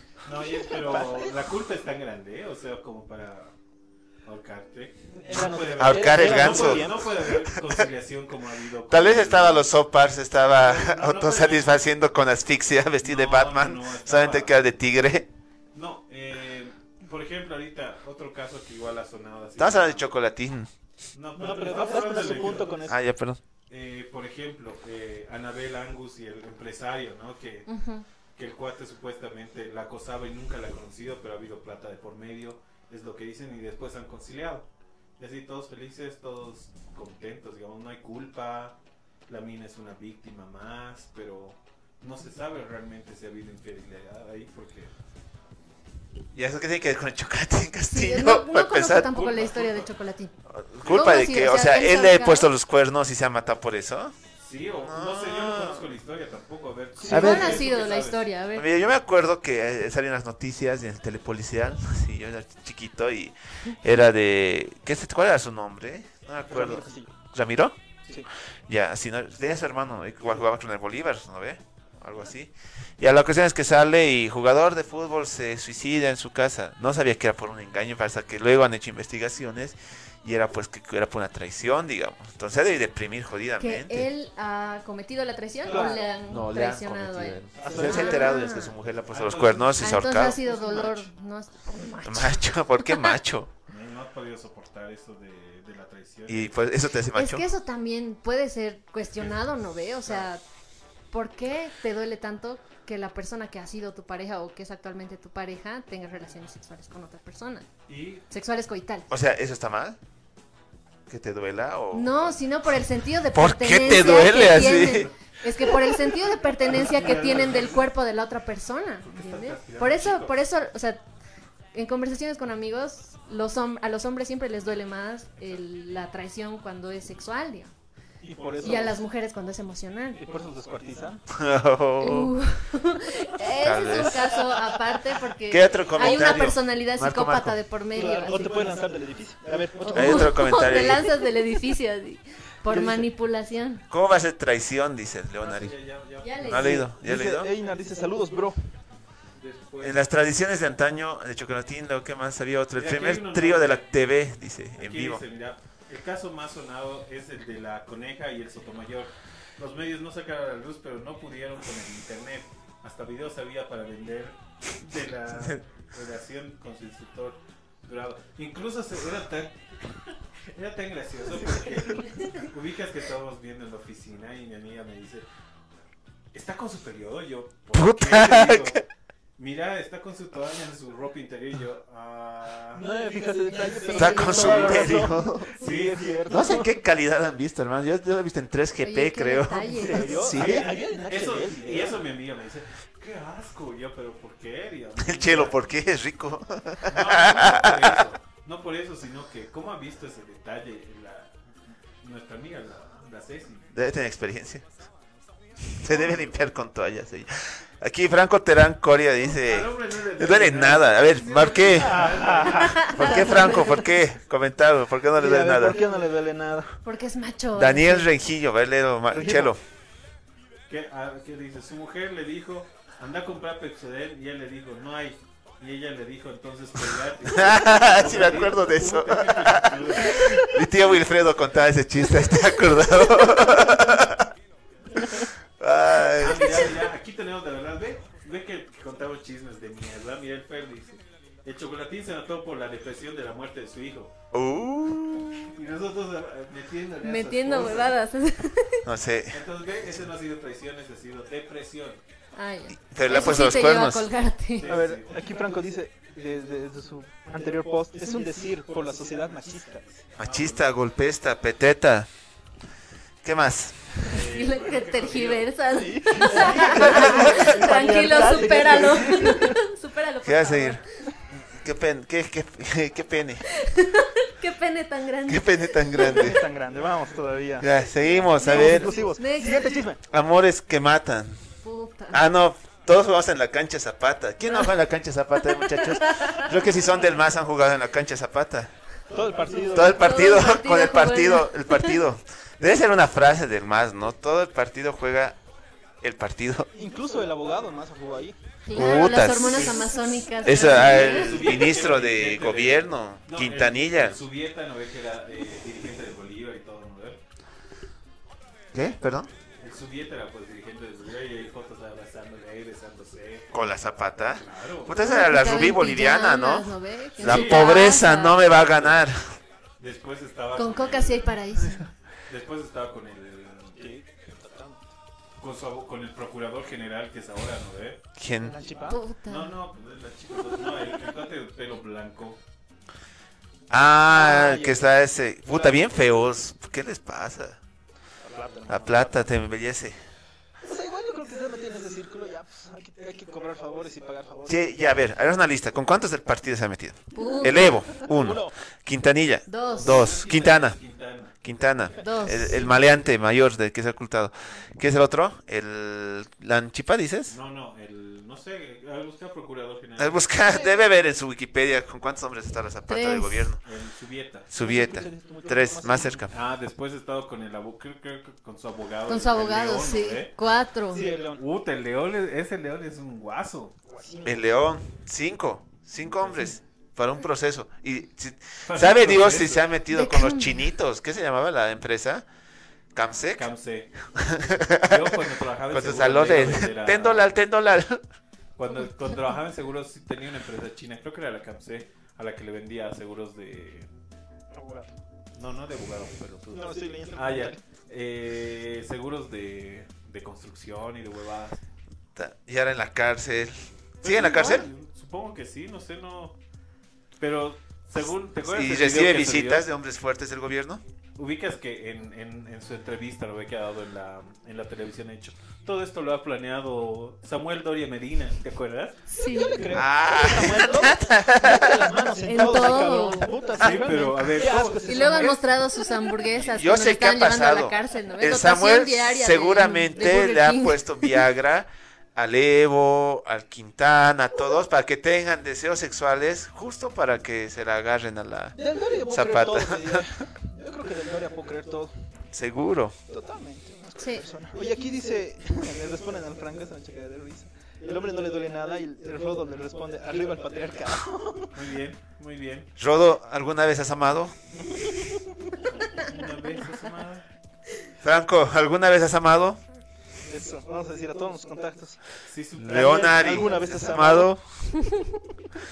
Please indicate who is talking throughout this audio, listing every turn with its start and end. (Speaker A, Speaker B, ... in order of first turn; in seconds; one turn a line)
Speaker A: 0.2-3.5
Speaker B: 0.7-1.3
Speaker A: 4.2-9.7
Speaker B: 5.1-7.4
Speaker C: 5.8-7.7
Speaker C: 8.9-15.3
Speaker A: 10.5-11.9
Speaker A: 13.0-14.6
Speaker A: 15.7-20.1
Speaker C: 19.6-20.7
Speaker A: 21.1-22.8
Speaker B: 21.4-23.0
Speaker C: 22.9-23.4
Speaker A: 23.7-27.7
Speaker D: 27.7-28.1
Speaker A: 28.4-38.8
Speaker A: 39.3-44.9
Speaker C: 46.3-49.4
Speaker D: 47.9-50.3
Speaker A: 49.2-49.9
Speaker C: 50.5-54.1
Speaker D: 50.9-52.5
Speaker A: 54.4-58.3
Speaker C: 54.8-55.8
Speaker B: 57.0-57.5
Speaker C: 57.1-57.6
Speaker D: 57.1-58.7
Speaker C: 58.5-67.8
Speaker B: 66.5-67.1
Speaker C: 68.7-84.1
Speaker D: 83.6-88.8
Speaker B: 85.7-86.0
Speaker C: 86.3-90.4
Speaker B: 87.6-88.3
Speaker A: 89.1-91.1
Speaker D: 89.8-93.1
Speaker C: 92.0-93.5
Speaker A: 93.7-96.6
Speaker C: 96.3-97.5
Speaker D: 97.1-100.4
Speaker D: 101.1-107.7
Speaker A: 107.9-108.2
Speaker D: 108.3-109.1
Speaker C: 109.1-110.0
Speaker C: 111.1-112.4
Speaker D: 111.9-121.0
Speaker C: 113.3-115.1
Speaker A: 114.5-114.9
Speaker A: 116.7-117.9
Speaker A: 119.0-120.4
Speaker D: 121.7-127.7
Speaker B: 128.2-129.0
Speaker D: 128.6-130.3
Speaker B: 130.2-131.2
Speaker C: 131.3-132.3
Speaker D: 132.0-138.7
Speaker C: 133.5-134.3
Speaker C: 135.5-137.6
Speaker B: 137.9-140.3
Speaker D: 139.8-143.8
Speaker C: 139.9-141.1
Speaker B: 142.7-143.1
Speaker C: 143.9-145.8
Speaker A: 145.4-146.7
Speaker D: 146.2-146.9
Speaker C: 146.3-147.5
Speaker B: 146.6-148.6
Speaker A: 149.4-150.0
Speaker C: 149.8-155.2
Speaker A: 152.8-154.0
Speaker A: 154.8-169.6
Speaker A: 170.5-175.3
Speaker A: 176.3-178.8
Speaker C: 177.7-178.8
Speaker A: 179.4-182.8
Speaker B: 182.8-186.7
Speaker D: 183.9-184.7
Speaker C: 183.9-185.5
Speaker A: 185.6-186.2
Speaker C: 186.3-190.7
Speaker D: 188.8-190.6
Speaker B: 189.8-192.0
Speaker A: 190.4-195.6
Speaker C: 195.0-198.0
Speaker A: 196.9-201.3
Speaker A: 202.0-203.7
Speaker C: 203.7-204.7
Speaker C: 205.7-212.1
Speaker A: 209.3-213.2
Speaker B: 211.8-212.8
Speaker D: 212.7-213.8
Speaker C: 212.9-215.8
Speaker B: 215.2-216.8
Speaker D: 216.8-218.1
Speaker C: 217.5-219.6
Speaker B: 219.1-219.5
Speaker A: 220.7-230.5
Speaker C: 227.3-234.3
Speaker C: 235.1-236.8
Speaker A: 236.2-244.1
Speaker C: 244.3-245.5
Speaker A: 245.5-248.0
Speaker D: 247.0-248.8
Speaker C: 248.8-249.4
Speaker A: 249.3-252.0
Speaker D: 252.3-254.8
Speaker C: 252.8-254.1
Speaker A: 254.6-255.2
Speaker B: 254.6-260.0
Speaker A: 260.2-260.6
Speaker C: 260.2-262.1
Speaker C: 263.2-264.0
Speaker A: 264.1-265.5
Speaker D: 264.1-270.8
Speaker B: 265.7-269.5
Speaker C: 266.8-267.5
Speaker A: 266.8-267.2
Speaker C: 270.2-270.8
Speaker C: 271.3-273.5
Speaker D: 273.6-276.4
Speaker C: 275.3-276.4
Speaker B: 276.1-277.8
Speaker C: 277.6-278.9
Speaker D: 278.0-279.9
Speaker B: 278.4-280.0
Speaker C: 280.1-281.4
Speaker D: 281.6-282.2
Speaker C: 282.1-288.7
Speaker D: 284.5-284.7
Speaker D: 285.5-286.8
Speaker B: 289.1-290.1
Speaker C: 289.7-295.4
Speaker D: 289.9-292.0
Speaker C: 296.0-296.7
Speaker B: 296.7-298.4
Speaker D: 298.7-301.6
Speaker C: 298.7-299.9
Speaker A: 298.8-307.2
Speaker C: 300.4-304.2
Speaker C: 308.7-309.3
Speaker A: 309.6-313.5
Speaker C: 313.5-319.2
Speaker A: 314.3-315.0
Speaker D: 315.0-318.4
Speaker A: 317.2-317.9
Speaker A: 318.4-319.0
Speaker A: 319.8-323.8
Speaker D: 320.6-321.9
Speaker B: 323.8-324.8
Speaker A: 325.4-328.0
Speaker C: 328.2-328.6
Speaker B: 328.4-329.0
Speaker D: 328.9-329.5
Speaker A: 329.3-332.4
Speaker C: 333.7-337.6
Speaker B: 334.1-334.9
Speaker B: 338.2-339.2
Speaker C: 338.7-340.0
Speaker B: 340.6-345.1
Speaker C: 344.5-350.8
Speaker D: 347.1-347.8
Speaker B: 348.0-348.5
Speaker D: 349.5-350.1
Speaker A: 349.7-351.3
Speaker C: 351.4-357.4
Speaker D: 352.0-352.8
Speaker A: 357.3-360.3
Speaker C: 360.0-363.6
Speaker D: 362.9-363.5
Speaker A: 363.6-364.5
Speaker C: 364.5-366.3
Speaker B: 364.6-366.3
Speaker A: 366.3-370.3
Speaker D: 369.1-371.1
Speaker B: 370.9-371.4
Speaker A: 371.4-373.8
Speaker B: 373.9-374.4
Speaker C: 374.2-382.3
Speaker A: 376.0-376.6
Speaker A: 378.6-379.7
Speaker D: 379.9-380.7
Speaker C: 382.9-383.5
Speaker A: 383.3-383.9
Speaker C: 384.2-385.2
Speaker A: 384.8-387.3
Speaker C: 385.7-388.0
Speaker A: 388.6-393.9
Speaker B: 394.5-394.9
Speaker A: 395.4-401.6
Speaker B: 396.5-397.6
Speaker C: 402.2-404.7
Speaker A: 404.0-406.4
Speaker A: 407.2-409.7
Speaker C: 408.4-410.8
Speaker A: 411.2-419.0
Speaker D: 419.1-419.7
Speaker B: 419.4-425.4
Speaker C: 419.7-421.9
Speaker D: 422.3-423.3
Speaker A: 423.6-425.4
Speaker D: 424.9-431.2
Speaker C: 426.4-438.6
Speaker B: 438.6-441.9
Speaker C: 439.1-440.1
Speaker C: 442.3-442.9
Speaker B: 443.1-451.5
Speaker D: 444.0-444.2
Speaker A: 451.5-452.7
Speaker C: 452.8-454.4
Speaker B: 454.7-455.1
Speaker A: 455.8-457.2
Speaker C: 458.0-459.6
Speaker B: 460.2-462.0
Speaker A: 462.3-464.1
Speaker C: 462.6-464.4
Speaker B: 462.7-464.3